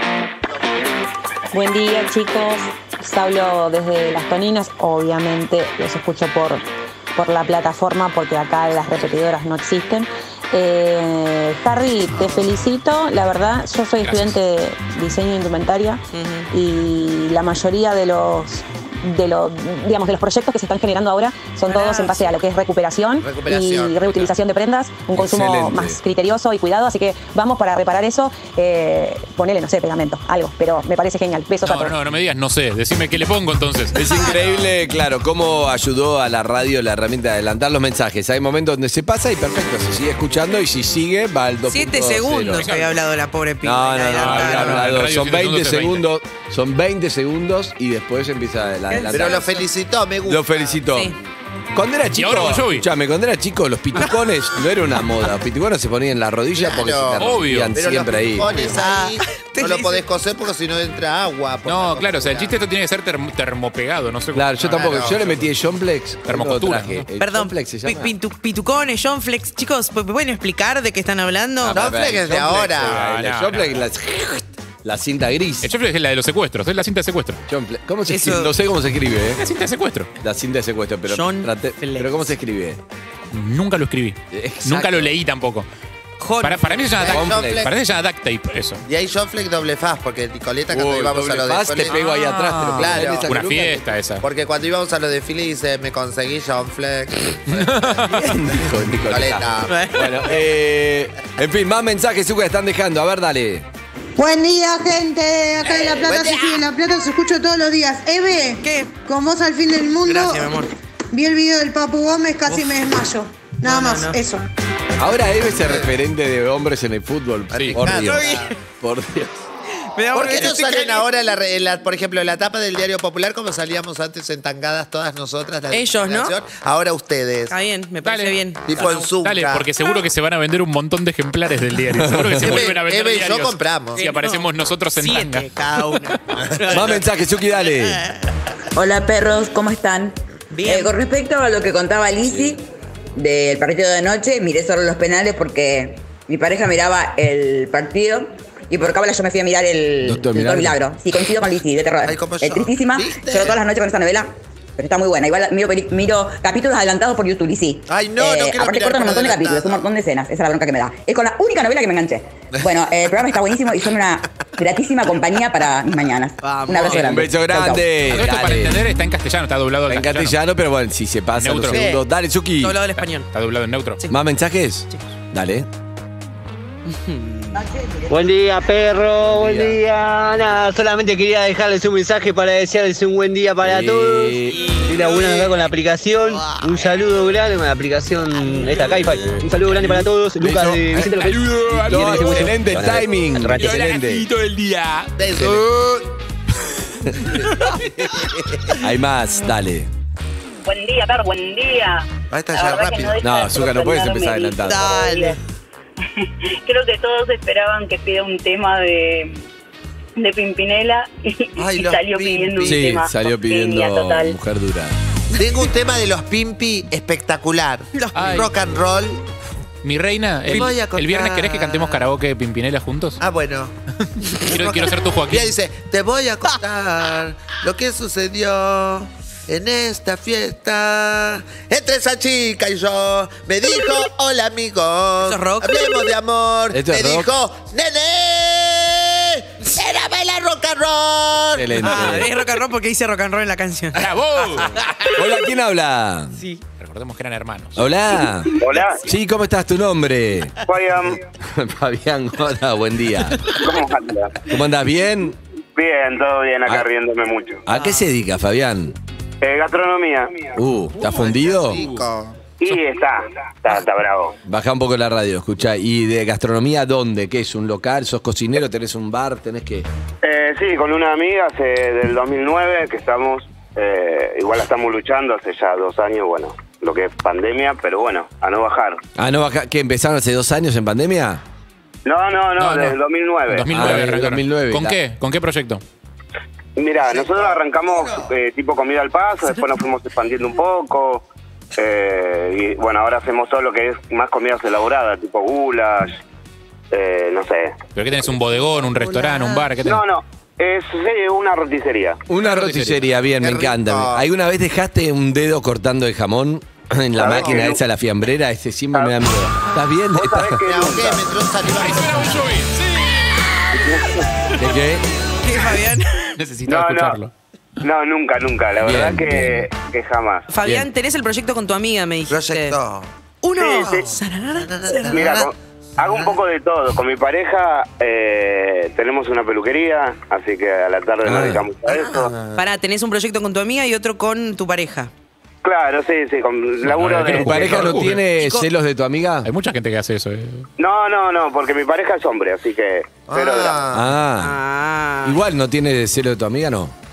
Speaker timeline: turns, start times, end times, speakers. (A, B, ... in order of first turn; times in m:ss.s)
0:01.5-0:06.6 A
0:07.2-0:32.0 A
0:14.0-0:14.4 B
0:16.1-0:16.5 C
0:21.7-0:22.3 C
0:23.2-0:24.1 D
0:25.1-0:26.0 E
0:31.6-0:34.0 B
0:33.9-0:42.8 E
0:41.7-0:44.9 C
0:42.6-0:43.0 B
0:43.6-0:49.5 E
0:44.1-0:46.1 B
0:48.9-0:49.6 C
0:49.1-0:50.8 D
0:50.2-0:51.1 E
0:50.9-0:51.2 C
0:51.7-0:58.6 E
0:52.2-0:52.9 B
0:56.5-1:02.6 D
0:57.2-0:57.8 B
0:58.6-1:00.0 C
1:01.7-1:05.5 B
1:04.3-1:08.1 E
1:04.7-1:05.3 D
1:06.3-1:07.1 B
1:07.2-1:11.8 C
1:11.6-1:15.7 E
1:11.7-1:13.0 D
1:12.8-1:13.8 B
1:15.6-1:17.4 B
1:17.5-1:19.4 E
1:18.1-1:18.5 C
1:19.4-1:20.1 B
1:20.2-1:22.8 E
1:21.1-1:22.4 C
1:23.3-1:25.7 B
1:24.3-1:25.2 E
1:26.2-1:27.0 C
1:26.4-1:28.8 B
1:27.0-1:27.7 D
1:27.1-1:27.7 E
1:28.9-1:32.0 D
1:30.7-1:34.0 E
1:31.9-1:34.2 B
1:32.8-1:33.3 D
1:34.2-1:39.9 D
1:37.5-1:38.1 B
1:38.1-1:43.6 E
1:39.7-1:40.4 C
1:44.2-1:50.6 F
1:45.6-1:46.6 D
1:48.6-1:48.9 C
1:50.0-1:50.7 C
1:51.1-1:54.4 F
1:53.6-1:54.2 C
1:55.0-1:59.5 E
1:57.5-1:58.5 D
1:57.6-1:57.8 B
1:58.0-1:58.5 C
2:00.0-2:01.1 C
2:00.1-2:07.6 D
2:05.7-2:06.4 C
2:07.5-2:09.1 C
2:08.0-2:08.5 B
2:08.7-2:09.7 D
2:09.0-2:15.5 B
2:11.9-2:12.6 E
2:12.4-2:14.1 D
2:14.0-2:17.0 C
2:16.7-2:18.0 E
2:17.6-2:18.1 C
2:18.7-2:22.6 G
2:20.5-2:21.0 C
2:23.2-2:47.9 G
2:30.0-2:30.8 E
2:32.0-2:33.6 D
2:37.9-2:39.9 D
2:46.4-2:47.2 C
2:46.8-2:48.8 E
2:48.0-2:50.4 B
2:49.9-2:52.8 E
2:51.4-2:51.8 B
2:51.7-2:52.0 D
2:52.6-2:53.3 C
2:53.0-2:54.0 B
2:54.1-2:55.7 E
2:56.9-2:57.7 C
2:58.1-3:13.0 H
2:59.3-2:59.8 E
3:03.6-3:04.6 E
3:04.6-3:05.0 C
3:09.6-3:14.3 E
3:11.2-3:12.8 B
3:13.4-3:16.0 B
3:15.2-3:15.7 D
3:17.3-3:17.8 B
3:18.8-3:19.9 E
3:20.6-3:25.4 I
3:22.3-3:23.2 D
3:23.2-3:24.9 E
3:24.6-3:25.4 C
3:26.2-3:29.4 I
3:30.2-3:34.4 I
3:31.6-3:32.9 D
3:32.6-3:35.0 E
3:35.3-3:39.2 D
3:38.0-3:38.5 C
3:38.2-3:38.5 B
3:39.8-3:43.2 B
3:40.5-3:42.1 D
3:43.2-3:43.8 D
3:44.4-3:45.6 B
3:44.5-4:02.2 D
3:55.2-3:55.9 C
3:56.7-3:57.3 E
4:01.6-4:02.3 E
4:01.8-4:04.1 C
4:03.9-4:05.0 B
4:05.2-4:06.4 E
4:06.4-4:06.6 C
4:06.8-4:08.0 B
4:07.8-4:10.5 E
4:08.6-4:09.0 J
4:10.6-4:11.2 J
4:11.5-4:13.5 E
4:13.5-4:14.4 J
4:14.5-4:15.4 E
4:15.8-4:17.6 J
4:17.7-4:19.0 E
4:17.7-4:18.1 C
4:19.4-4:20.5 J
4:20.6-4:21.9 E
4:21.0-4:22.4 D
4:22.6-4:24.4 J
4:24.5-4:29.9 E
4:30.2-4:39.0 J
4:39.2-4:41.4 E
4:42.0-4:43.7 J
4:42.6-4:43.0 B
4:43.5-4:45.8 B
4:43.7-4:45.0 E
4:46.8-4:51.2 J
4:47.0-4:48.3 D
4:51.8-4:56.2 J
4:56.9-4:57.8 J
4:58.0-5:00.0 B
4:59.8-5:02.2 J
5:02.3-5:10.6 E
5:02.3-5:03.1 B
5:03.4-5:04.3 D
5:07.2-5:07.8 J
5:07.2-5:07.7 D
5:10.1-5:11.2 J
5:10.7-5:12.5 D
5:11.7-5:13.1 B
5:13.7-5:14.3 J
5:14.6-5:15.0 E
5:15.3-5:16.3 C
5:16.4-5:17.3 B
5:16.7-5:17.2 J
5:17.8-5:20.5 J
5:18.8-5:19.7 E
5:20.5-5:22.8 C
5:20.6-5:20.9 E
5:22.3-5:23.1 D
5:23.4-5:25.2 C
5:23.6-5:24.1 J
5:23.8-5:25.5 D
5:25.0-5:32.3 J
5:31.2-5:31.7 E
5:31.9-5:32.6 D
5:32.6-5:35.1 C
5:35.6-5:37.8 J
5:36.8-5:38.2 B
5:37.2-5:39.5 E
5:37.7-5:38.7 C
5:39.4-5:40.7 B
5:40.8-5:43.8 J
5:43.3-5:44.1 D
5:43.9-5:44.6 E
5:44.4-5:45.4 C
5:45.2-5:47.0 E